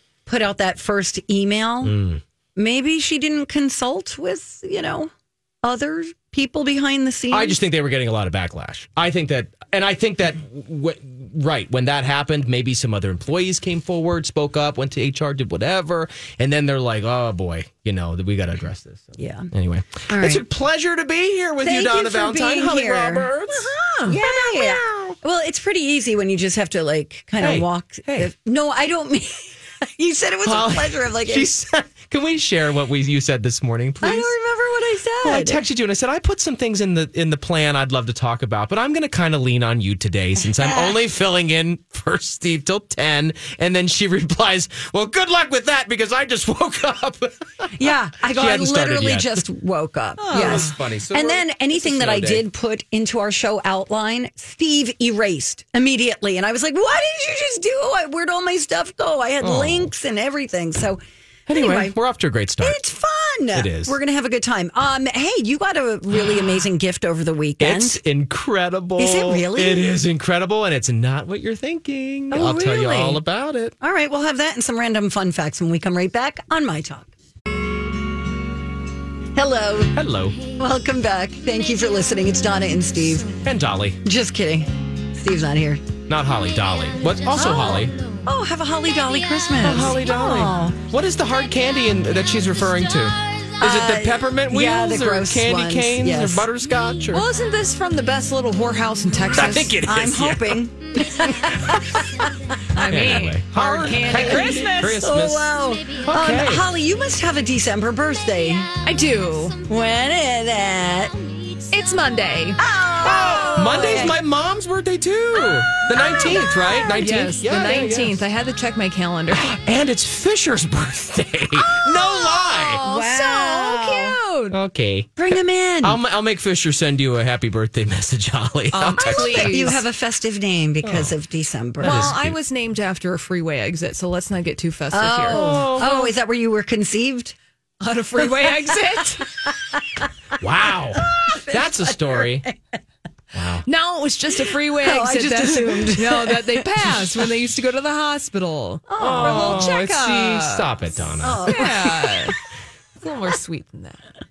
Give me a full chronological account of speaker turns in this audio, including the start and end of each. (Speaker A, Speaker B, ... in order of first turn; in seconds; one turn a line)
Speaker A: 0.3-1.9
Speaker B: 1.8-2.2
Speaker A: 2.6-5.1
Speaker A: 5.6-7.6
Speaker B: 7.3-25.1
Speaker A: 19.2-19.5
Speaker A: 20.1-20.4
Speaker A: 21.6-23.3
Speaker C: 23.7-24.2
Speaker A: 24.1-31.5
Speaker B: 27.4-28.3
Speaker B: 30.4-34.3
Speaker A: 34.0-35.6
Speaker B: 35.2-49.4
Speaker A: 40.6-40.9
Speaker A: 47.8-61.0
Speaker C: 50.2-50.7
Speaker B: 50.3-52.4
Speaker B: 59.4-59.9
Speaker B: 61.5-62.8
Speaker A: 61.5-61.9
Speaker A: 62.6-68.0
Speaker B: 63.5-64.0
Speaker B: 66.2-66.5
Speaker B: 67.6-73.8
Speaker A: 69.0-69.9
Speaker A: 72.3-73.2
Speaker A: 73.8-77.1
Speaker A: 79.3-80.0
Speaker B: 79.9-80.4
Speaker A: 80.5-83.3
Speaker B: 83.4-84.0
Speaker A: 84.0-85.8
Speaker B: 86.1-88.0
Speaker A: 87.3-90.8
Speaker B: 89.6-97.3
Speaker C: 90.0-90.5
Speaker A: 93.6-96.5
Speaker C: 97.1-99.8
Speaker B: 99.3-100.6
Speaker A: 99.8-108.8
Speaker C: 102.8-105.0
Speaker B: 102.9-106.7
Speaker C: 108.8-109.6
Speaker A: 109.6-111.2
Speaker C: 111.7-112.6
Speaker A: 112.6-114.2
Speaker B: 113.0-118.2
Speaker C: 113.2-113.6
Speaker A: 115.8-117.0
Speaker C: 116.9-119.5
Speaker B: 119.3-122.8
Speaker C: 121.8-124.6
Speaker A: 122.8-124.2
Speaker B: 124.5-129.8
Speaker A: 125.2-126.0
Speaker C: 128.7-129.8
Speaker A: 129.0-132.2
Speaker B: 130.8-131.1
Speaker B: 131.8-132.4
Speaker C: 131.8-136.1
Speaker A: 134.9-137.4
Speaker B: 135.3-136.1
Speaker C: 137.8-139.3
Speaker B: 140.4-142.4
Speaker A: 141.1-142.6
Speaker B: 143.3-143.6
Speaker C: 143.7-150.7
Speaker A: 144.7-146.9
Speaker A: 148.9-149.7
Speaker B: 149.0-151.6
Speaker A: 151.2-152.2
Speaker C: 151.4-152.4
Speaker C: 153.0-154.0